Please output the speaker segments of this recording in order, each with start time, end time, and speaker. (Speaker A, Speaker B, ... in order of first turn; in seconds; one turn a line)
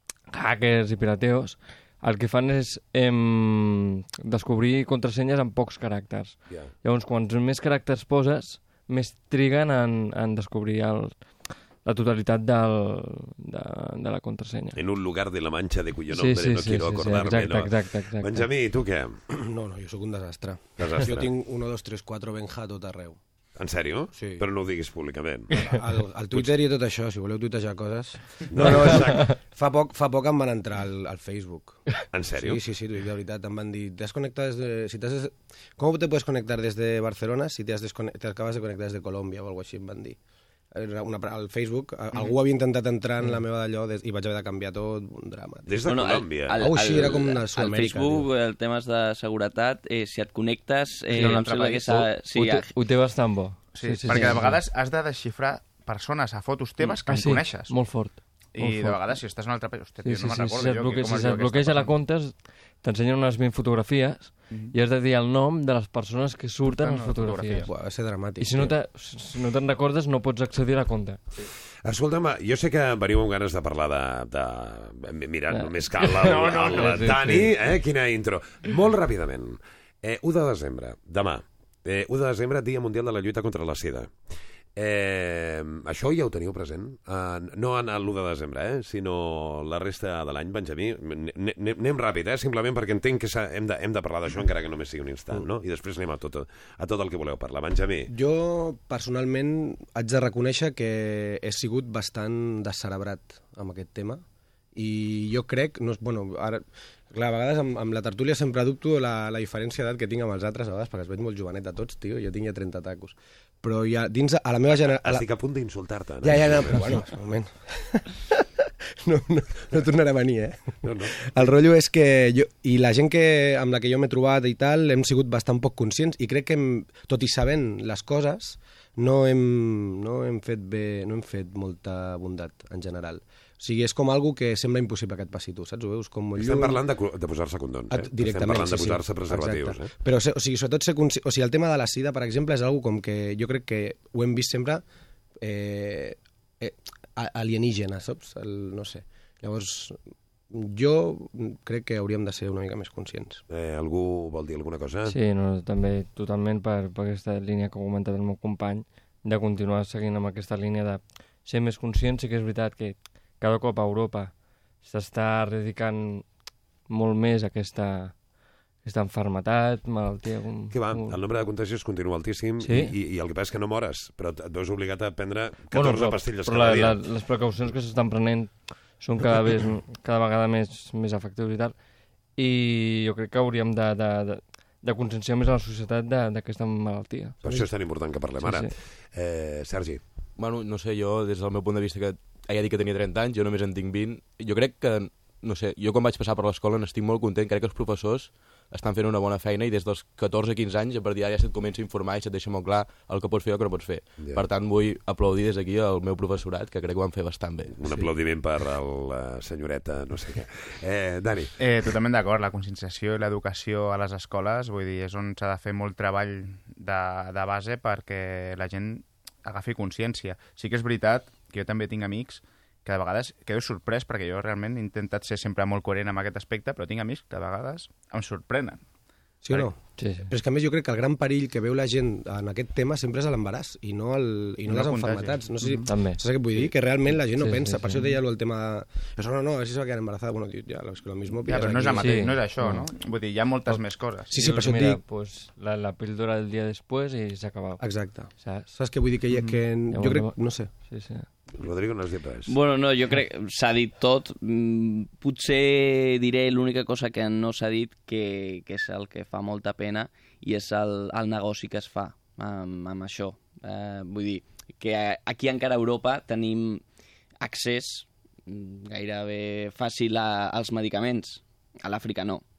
Speaker A: 0.3-11.2
Speaker A: 11.8-14.8
Speaker B: 14.8-19.2
Speaker A: 16.1-18.5
Speaker C: 19.3-23.2
Speaker B: 20.8-21.3
Speaker B: 23.6-25.7
Speaker C: 24.1-24.4
Speaker C: 25.7-40.2
Speaker B: 28.5-29.3
Speaker B: 32.1-32.6
Speaker C: 40.7-45.9
Speaker B: 45.7-46.6
Speaker D: 45.9-52.7
Speaker C: 46.6-48.3
Speaker A: 51.1-51.5
Speaker E: 51.1-52.0
Speaker A: 52.3-54.6
Speaker E: 53.7-57.8
Speaker D: 54.1-54.4
Speaker A: 57.0-59.1
Speaker E: 58.5-61.9
Speaker A: 60.0-67.7
Speaker E: 66.7-67.7
Speaker C: 67.7-68.7
Speaker A: 68.4-71.2
Speaker B: 71.8-84.1
Speaker A: 75.5-77.5
Speaker E: 76.7-77.2
Speaker B: 84.8-98.1
Speaker C: 98.1-104.2
Speaker C: 104.8-115.3
Speaker B: 114.9-117.0
Speaker C: 116.2-136.8
Speaker B: 120.8-121.3
Speaker B: 136.4-139.9
Speaker C: 137.9-144.8
Speaker C: 145.4-150.0
Speaker C: 150.5-153.4
Speaker B: 153.5-155.2
Speaker A: 155.1-166.2
Speaker A: 166.9-168.2
Speaker A: 168.8-171.2
Speaker B: 170.7-177.0
Speaker A: 172.6-172.9
Speaker A: 175.7-181.8
Speaker A: 182.4-187.7
Speaker B: 187.4-190.0
Speaker A: 188.4-188.7
Speaker F: 190.4-207.8
Speaker B: 207.8-211.6
Speaker E: 211.6-228.8
Speaker C: 229.4-242.3
Speaker A: 229.9-230.3
Speaker E: 234.7-235.9
Speaker A: 235.8-236.7
Speaker A: 237.3-238.2
Speaker E: 241.4-244.4
Speaker A: 242.0-242.9
Speaker C: 244.3-245.0
Speaker A: 244.3-248.7
Speaker C: 247.8-250.7
Speaker A: 249.9-251.3
Speaker B: 251.5-252.5
Speaker D: 252.5-266.8
Speaker D: 267.4-272.4